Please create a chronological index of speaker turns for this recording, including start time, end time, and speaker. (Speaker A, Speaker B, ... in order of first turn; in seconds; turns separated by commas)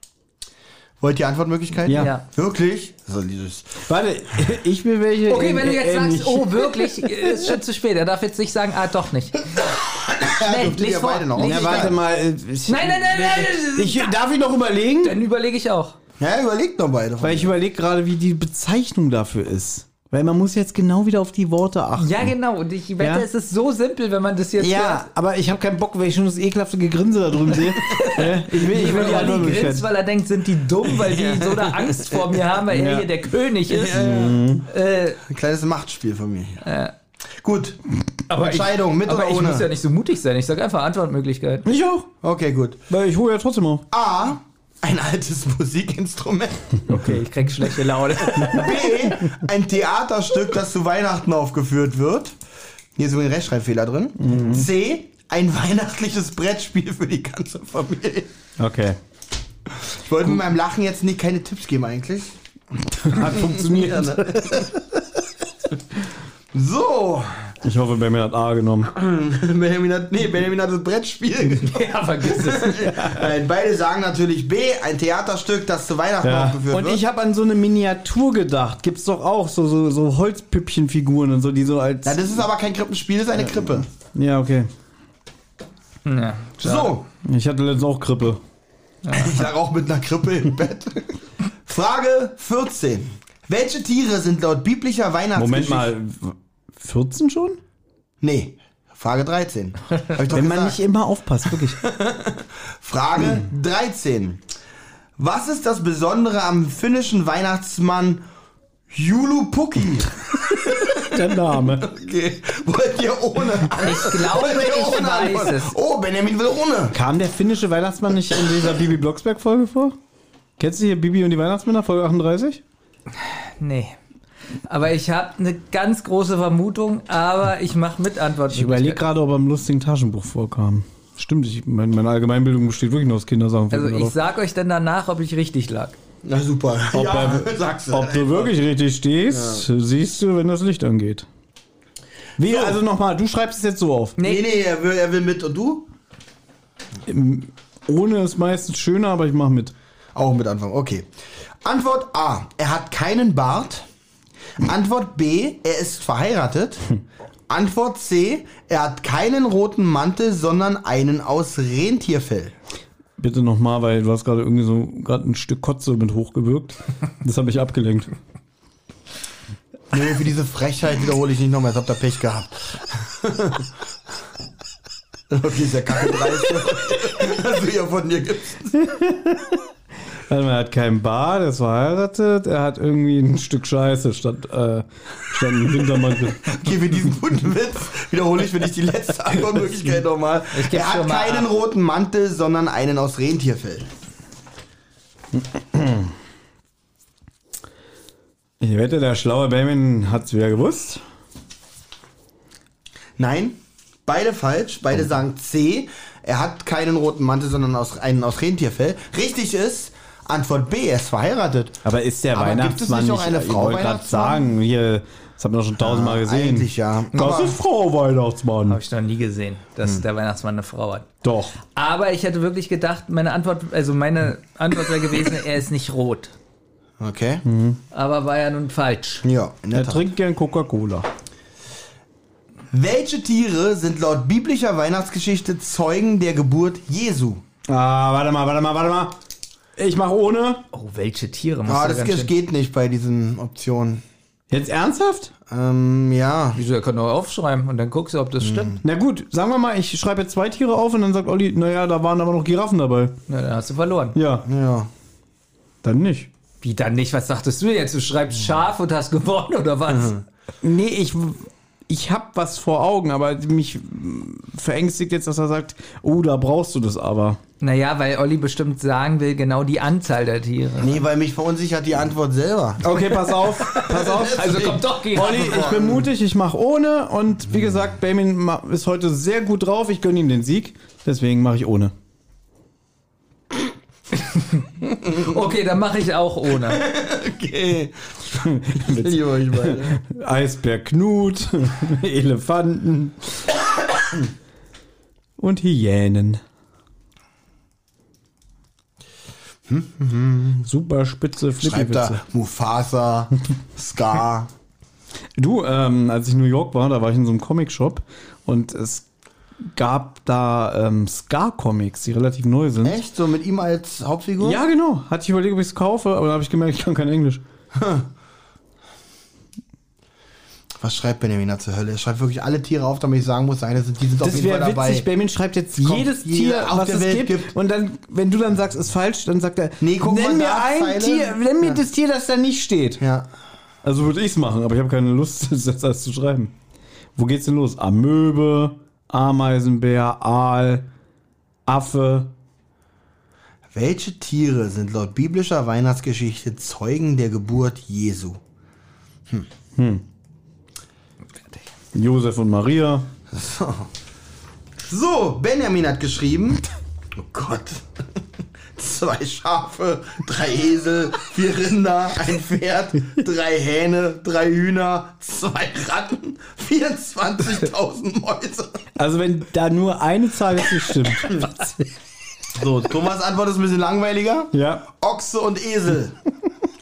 Speaker A: 1.0-3.8, Speaker B: 1.9-2.1, Speaker C: 1.9-2.2, Speaker B: 3.8-7.5, Speaker C: 5.3-9.5, Speaker A: 9.8-12.0, Speaker C: 10.2-11.9, Speaker B: 11.4-15.2, Speaker C: 12.7-14.1, Speaker C: 15.0-15.9, Speaker A: 16.2-17.5, Speaker B: 17.2-22.3, Speaker C: 22.0-25.1, Speaker B: 23.0-23.3, Speaker B: 24.6-29.9, Speaker C: 27.8-35.2, Speaker A: 31.0-32.1, Speaker B: 32.7-33.1, Speaker A: 33.7-34.5, Speaker B: 33.9-34.6, Speaker A: 35.2-36.6, Speaker C: 36.6-36.9, Speaker A: 37.4-37.8, Speaker C: 38.3-41.6, Speaker A: 38.4-39.7, Speaker B: 41.6-42.1, Speaker A: 42.2-42.8, Speaker B: 42.9-43.8, Speaker A: 43.9-46.8, Speaker C: 46.9-48.9, Speaker A: 48.3-52.3, Speaker A: 53.0-58.3, Speaker B: 54.2-54.6, Speaker B: 58.6-59.0, Speaker A: 59.7-62.3, Speaker A: 62.9-64.7, Speaker B: 63.0-64.7, Speaker A: 66.5-67.5, Speaker B: 67.6-68.9, Speaker A: 68.9-77.0, Speaker C: 71.5-72.9, Speaker B: 76.2-82.4, Speaker A: 82.0-83.9, Speaker B: 83.5-84.7, Speaker C: 86.0-86.9, Speaker A: 86.6-87.0, Speaker B: 87.2-88.4, Speaker C: 89.0-89.4, Speaker A: 89.1-95.9, Speaker B: 95.3-97.6, Speaker A: 98.2-100.8, Speaker B: 100.3-101.8, Speaker A: 101.8-104.4, Speaker A: 105.2-108.2, Speaker A: 108.9-111.2, Speaker B: 111.0-111.9, Speaker A: 111.8-117.0, Speaker C: 113.8-115.7, Speaker B: 116.9-120.0, Speaker B: 120.6-122.6, Speaker C: 123.3-124.0, Speaker C: 124.7-129.0, Speaker B: 128.5-134.2, Speaker C: 133.7-136.0, Speaker A: 136.2-138.5, Speaker B: 136.9-141.3, Speaker A: 139.3-139.6, Speaker B: 142.4-144.2, Speaker A: 142.4-142.8, Speaker C: 144.2-144.4, Speaker A: 144.2-145.9, Speaker B: 147.1-149.7, Speaker A: 150.1-151.1, Speaker A: 151.6-153.9, Speaker A: 154.6-156.9, Speaker A: 157.5-162.5, Speaker B: 163.2-168.1, Speaker A: 169.9-173.7, Speaker A: 175.3-178.8, Speaker B: 178.7-179.6, Speaker B: 180.3-186.6, Speaker A: 186.4-193.9, Speaker C: 190.5-191.5, Speaker B: 195.3-196.1, Speaker B: 198.6-201.0, Speaker A: 203.2-211.8, Speaker B: 211.8-218.8, Speaker A: 212.3-214.5, Speaker A: 215.8-217.6, Speaker C: 218.7-221.1, Speaker B: 221.2-221.6, Speaker C: 221.7-226.3, Speaker A: 227.0-227.4, Speaker B: 227.4-227.8, Speaker C: 227.9-229.2, Speaker A: 229.2-230.1, Speaker B: 229.7-231.1, Speaker A: 232.7-237.4, Speaker B: 237.7-239.2, Speaker B: 239.8-240.6, Speaker C: 240.7-242.3, Speaker A: 241.7-244.0, Speaker B: 244.5-245.3, Speaker A: 245.5-246.6, Speaker C: 246.5-248.8, Speaker A: 248.4-248.8, Speaker B: 248.8-253.1, Speaker C: 253.3-254.2, Speaker B: 254.1-254.5, Speaker A: 254.4-254.9, Speaker B: 255.8-256.3, Speaker C: 256.6-260.2, Speaker A: 259.9-260.2, Speaker B: 260.6-267.4, Speaker C: 267.6-271.0, Speaker A: 270.8-272.9, Speaker B: 272.8-281.9, Speaker C: 273.4-275.8, Speaker A: 273.7-276.0, Speaker C: 284.1-286.9, Speaker A: 286.7-290.0, Speaker B: 288.4-293.4, Speaker B: 295.4-296.4, Speaker A: 299.7-300.6, Speaker B: 300.6-302.2, Speaker A: 301.6-304.5, Speaker B: 305.4-309.0, Speaker B: 309.6-313.0, Speaker A: 312.8-314.6, Speaker B: 314.4-317.4, Speaker A: 317.7-318.1, Speaker A: 320.8-325.1, Speaker B: 324.2-333.0, Speaker A: 325.8-327.5, Speaker A: 329.8-331.8, Speaker A: 333.0-333.2, Speaker B: 333.8-336.5, Speaker B: 337.1-340.9, Speaker B: 341.6-342.3, Speaker A: 343.7-348.4, Speaker B: 349.8-350.0, Speaker B: 351.9-353.1, Speaker A: 353.3-353.9, Speaker A: 354.8-356.6, Speaker A: 357.1-357.8, Speaker A: 358.8-368.8, Speaker B: 369.0-371.9, Speaker A: 372.5-376.2, Speaker B: 374.5-374.8